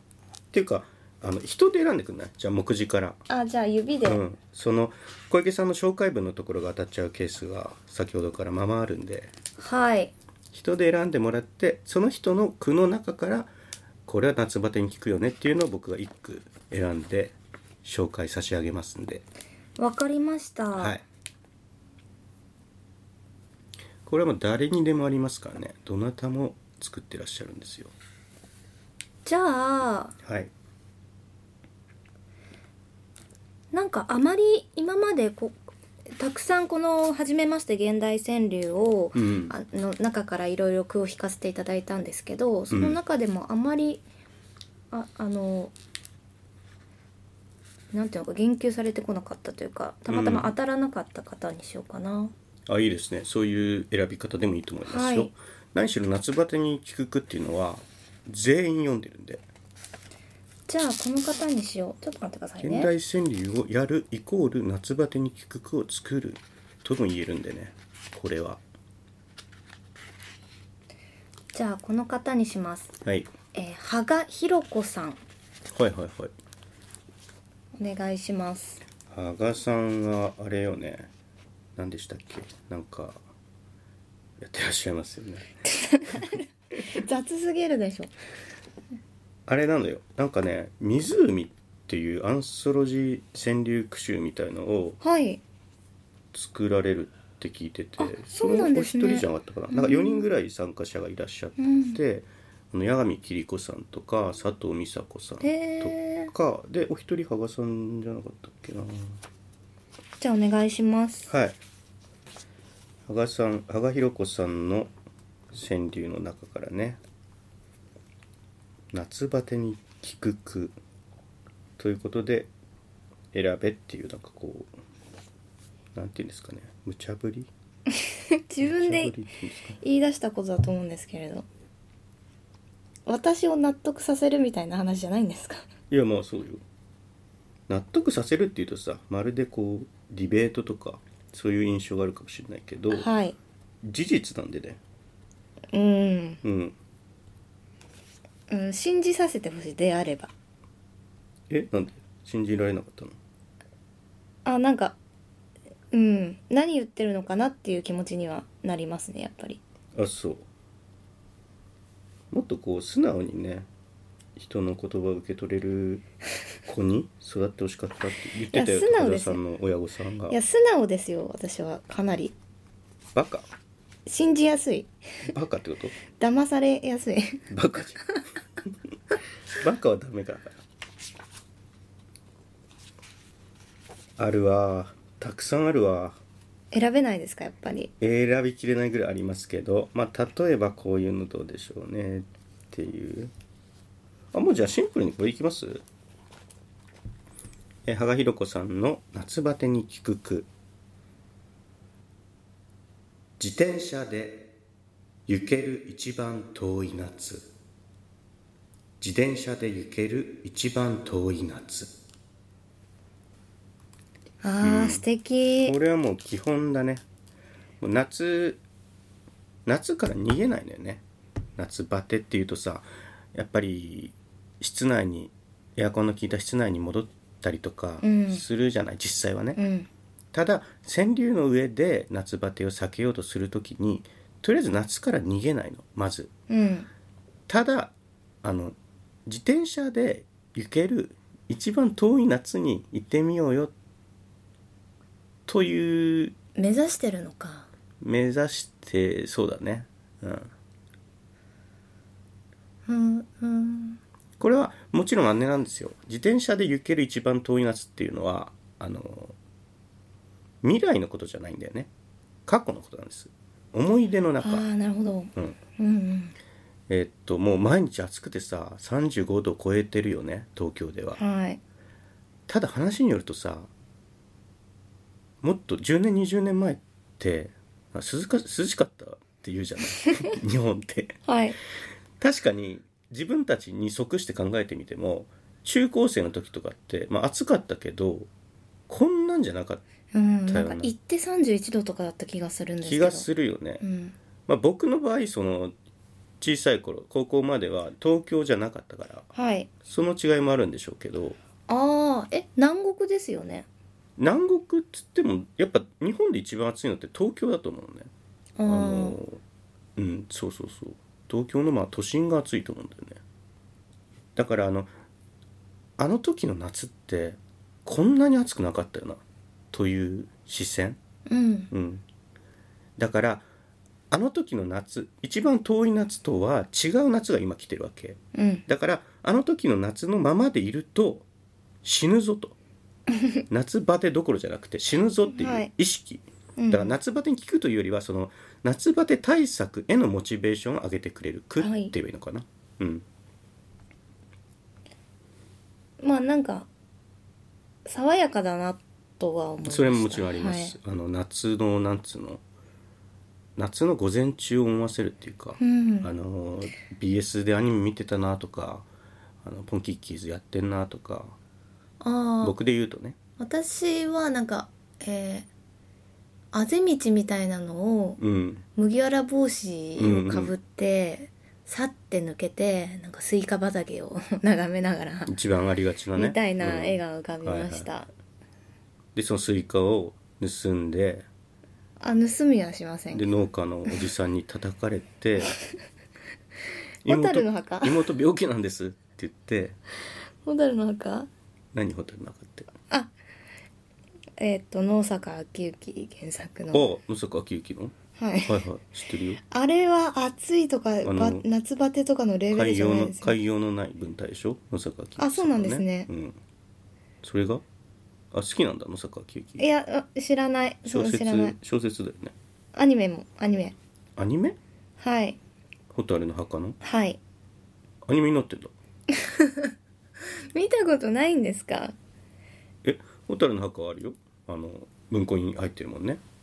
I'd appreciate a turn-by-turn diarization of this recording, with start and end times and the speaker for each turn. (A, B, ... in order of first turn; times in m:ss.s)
0:00.5-0:03.2 A
0:03.3-0:04.2 B
0:04.0-0:09.3 A
0:09.6-0:10.1 B
0:10.5-0:13.5 A
0:14.0-0:19.2 A
0:19.8-0:20.9 B
0:20.7-0:21.0 A
0:24.0-0:27.9 A
0:29.2-0:30.1 B
0:30.2-0:30.5 A
0:33.7-0:35.6 B
0:36.1-0:44.0 B
0:39.1-0:39.5 A
0:42.7-0:43.0 A
0:44.9-0:45.7 B
0:47.9-0:52.3 B
0:50.1-0:50.5 A
0:52.7-0:59.4 A
0:54.9-0:55.3 B
1:00.7-1:02.9 B
1:02.6-1:08.6 A
1:11.5-1:12.9 B
1:13.0-1:13.3 A
1:13.5-1:15.2 B
1:15.7-1:16.3 A
1:17.8-1:18.8 B
1:19.1-1:21.1 A
1:21.8-1:23.2 A
1:24.4-1:25.5 A
1:25.6-1:28.1 B
1:29.5-1:35.0 A
1:35.0-1:35.4 B
1:36.3-1:49.2 A
1:38.0-1:40.2 B
1:41.6-1:42.0 B
1:45.4-1:46.3 B
1:50.2-1:51.3 B
1:51.3-1:51.6 A
1:53.1-1:54.9 A
1:55.5-1:57.0 A
1:58.9-2:00.7 A
2:01.8-2:02.5 A
2:03.3-2:04.7 A
2:05.9-2:07.5 A
2:07.9-2:09.2 B
2:08.6-2:09.8 A
2:09.8-2:11.4 B
2:13.0-2:15.6 B
2:15.9-2:16.6 A
2:17.7-2:23.1 A
2:22.9-2:23.4 B
2:23.8-2:24.8 A
2:25.7-2:26.4 B
2:26.4-2:26.8 A
2:28.5-2:30.3 B
2:31.5-2:33.2 A
2:34.4-2:35.0 B
2:35.9-2:39.6 B
2:39.9-2:40.4 A
2:42.3-2:43.7 A
2:44.4-2:46.0 A
2:46.6-2:50.4 A
2:48.5-2:49.4 B
2:50.3-2:52.3 B
2:53.1-2:53.5 A
2:54.0-2:54.9 B
2:55.2-2:56.0 A
2:56.1-2:57.4 B
2:57.5-2:58.1 A
2:59.6-3:00.6 A
3:04.2-3:06.2 A
3:06.7-3:07.9 B
3:08.0-3:13.3 A
3:14.3-3:15.8 A
3:17.8-3:20.5 A
3:23.4-3:24.5 A
3:25.3-3:27.5 A
3:29.0-3:31.9 A
3:34.4-3:35.8 B
3:34.6-3:35.0 A
3:35.6-3:37.0 A
3:37.8-3:38.6 A
3:39.6-3:41.0 A
3:41.6-3:49.6 A
3:48.0-3:48.4 B
3:49.6-3:49.9 B
3:50.3-3:56.3 A
3:56.5-3:56.9 B
3:57.5-4:03.7 A
4:05.5-4:06.4 A
4:06.6-4:07.7 B
4:08.0-4:10.5 A
4:12.8-4:14.0 B
4:14.4-4:19.4 A
4:20.6-4:21.9 A
4:22.5-4:24.7 A
4:24.4-4:26.4 B
4:26.9-4:31.2 A
4:31.2-4:31.6 B
4:32.5-4:33.7 A
4:35.4-4:41.2 A
4:41.2-4:41.6 B
4:42.2-4:48.3 A
4:48.9-4:49.8 A
4:50.1-4:53.3 B
4:50.5-4:50.9 A
4:52.8-4:53.8 A
4:53.8-4:54.1 B
4:54.5-4:55.7 A
4:56.4-4:59.3 A
4:59.3-4:59.7 B
4:59.8-5:01.4 A
5:01.7-5:03.7 B
5:04.2-5:08.1 A
5:08.6-5:09.2 B
5:08.6-5:09.4 A
5:10.0-5:13.2 A
5:14.4-5:14.9 A
5:16.0-5:21.0 A
5:21.3-5:21.7 B
5:21.7-5:22.0 A
5:23.0-5:23.5 A
5:24.1-5:31.2 A
5:28.3-5:28.6 B
5:31.8-5:32.6 A
5:33.2-5:33.4 B
5:33.5-5:43.0 A
5:35.3-5:35.7 B
5:36.6-5:36.9 B
5:41.6-5:41.9 B
5:46.0-5:46.7 B
5:47.8-5:50.7 B
5:49.6-5:52.4 A
5:53.6-5:58.8 A
5:55.6-5:56.1 B
5:59.4-6:01.4 A
6:02.0-6:02.5 B
6:02.4-6:03.2 A
6:03.4-6:05.5 B
6:06.5-6:08.2 B
6:08.2-6:08.6 A
6:08.8-6:15.3 B
6:10.0-6:10.5 A
6:15.3-6:17.9 A
6:16.2-6:18.1 B
6:19.1-6:21.2 A
6:22.0-6:23.2 B
6:23.1-6:25.6 A
6:27.0-6:29.8 A
6:27.0-6:28.0 B
6:30.4-6:31.3 B
6:31.7-6:32.7 A
6:34.4-6:36.9 B
6:36.7-6:39.4 A
6:38.2-6:38.6 B
6:39.5-6:43.3 B
6:41.0-6:41.5 A
6:42.5-6:46.4 A
6:45.2-6:46.1 B
6:47.2-6:47.6 A
6:48.3-6:49.6 A
6:49.6-6:51.6 B
6:50.8-6:52.3 A
6:52.7-6:53.8 B
6:54.2-6:54.6 A
6:55.0-6:55.4 B
6:55.9-6:56.8 A
6:56.8-6:57.2 B
6:58.0-6:58.7 A
6:59.1-6:59.7 B
7:00.3-7:02.0 B
7:02.8-7:06.2 A